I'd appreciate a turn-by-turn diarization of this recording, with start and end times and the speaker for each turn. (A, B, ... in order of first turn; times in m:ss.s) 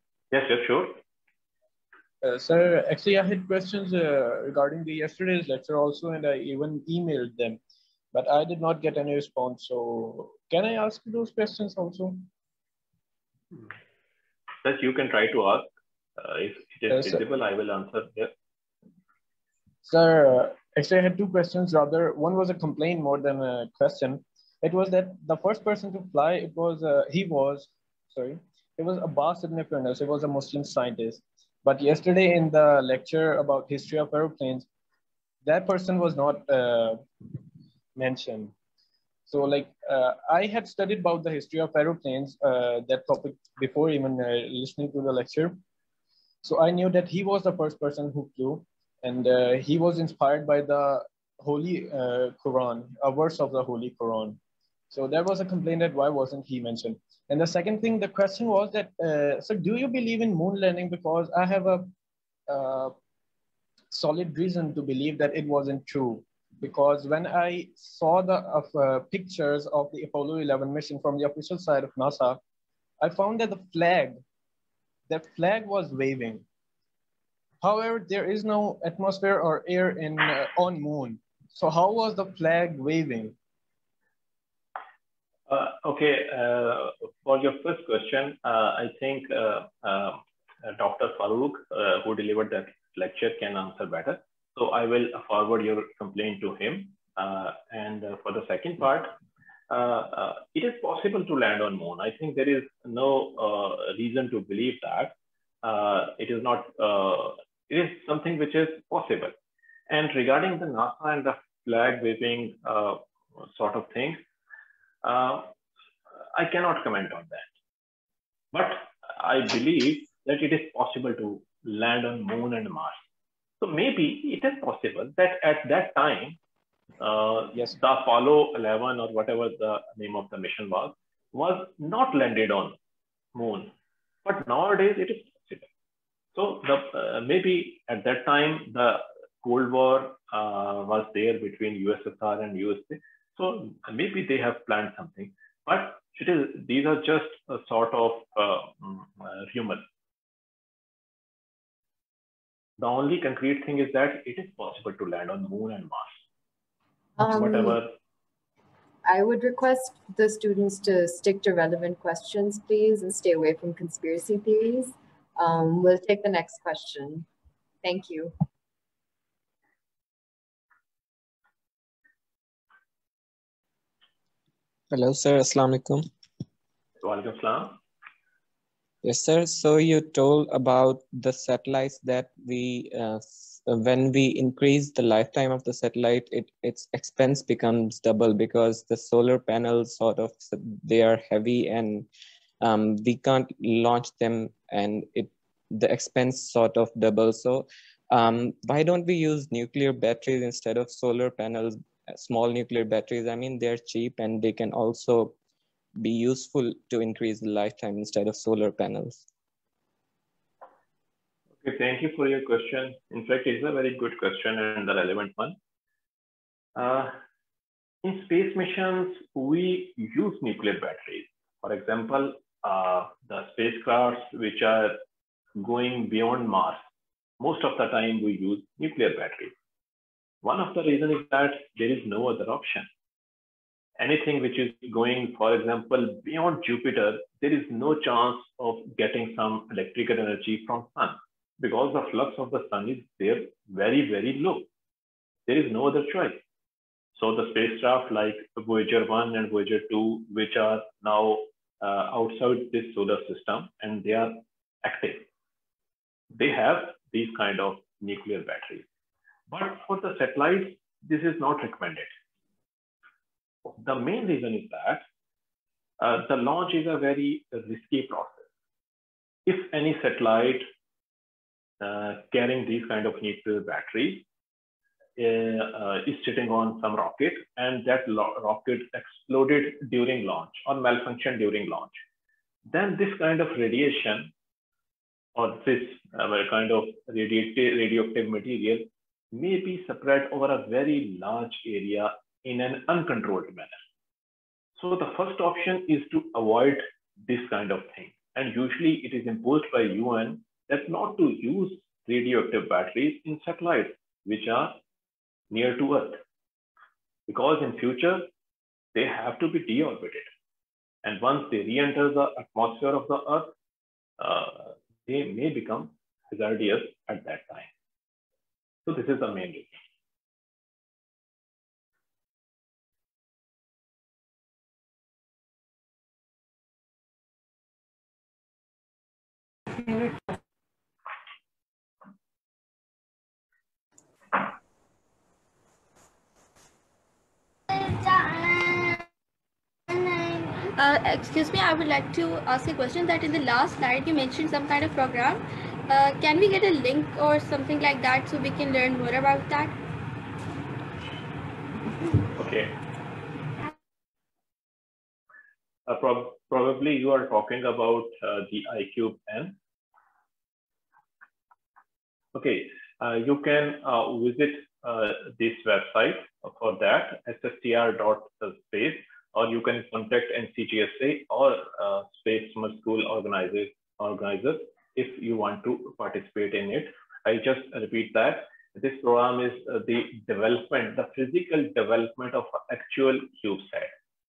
0:00.3-0:01.0 A
0:02.2-0:07.6 B
0:08.1-0:12.3 B
0:14.6-0:18.3 A
0:16.9-0:17.2 B
0:19.8-0:34.7 B
0:35.4-0:37.0 B
0:38.0-0:38.5 B
0:39.3-0:45.6 B
0:46.4-0:54.4 B
0:54.9-1:01.9 B
1:02.5-1:03.0 B
1:03.9-1:12.4 B
1:13.0-1:14.2 B
1:15.1-1:16.4 B
1:17.6-1:23.4 B
1:25.5-1:39.2 A
1:39.7-1:49.3 A
1:49.9-1:54.2 A
1:55.0-1:55.5 A
1:56.3-1:57.5 A
1:58.5-2:03.0 A
2:03.6-2:06.4 A
2:07.0-2:12.8 A
2:13.4-2:13.7 A
2:14.2-2:15.7 A
2:16.4-2:29.8 A
2:32.8-2:36.2 A
2:37.2-2:37.8 C
2:37.3-2:37.9 A
2:39.0-2:47.3 C
2:47.8-2:48.4 C
2:54.9-2:56.1 D
2:57.0-2:57.8 A
2:59.0-3:12.1 D
3:12.6-3:25.4 D
3:26.0-3:29.3 D
3:31.6-3:35.6 A
3:36.8-3:37.2 A
3:38.0-3:45.0 A
3:45.6-3:46.8 A
3:47.4-3:49.5 A
3:50.4-3:52.9 A
3:54.0-4:04.7 A
4:05.5-4:06.4 A
4:07.2-4:15.3 A
4:16.3-4:18.9 A
4:19.5-4:22.1 A
4:23.7-4:25.0 A
4:26.0-4:28.5 A
4:29.5-4:30.7 A
4:31.8-4:34.3 A
4:35.2-4:42.0 A
4:42.7-4:44.3 A
4:45.4-4:53.8 A
4:54.8-5:04.8 A
5:05.5-5:06.2 A
5:07.3-5:08.3 A
5:08.9-5:10.3 A
5:11.0-5:13.5 A
5:14.2-5:17.7 A
5:18.8-5:19.8 A
5:37.7-5:39.1 E
5:39.9-5:49.8 E
5:52.3-5:52.8 A
5:55.9-5:59.6 A
6:02.3-6:23.9 A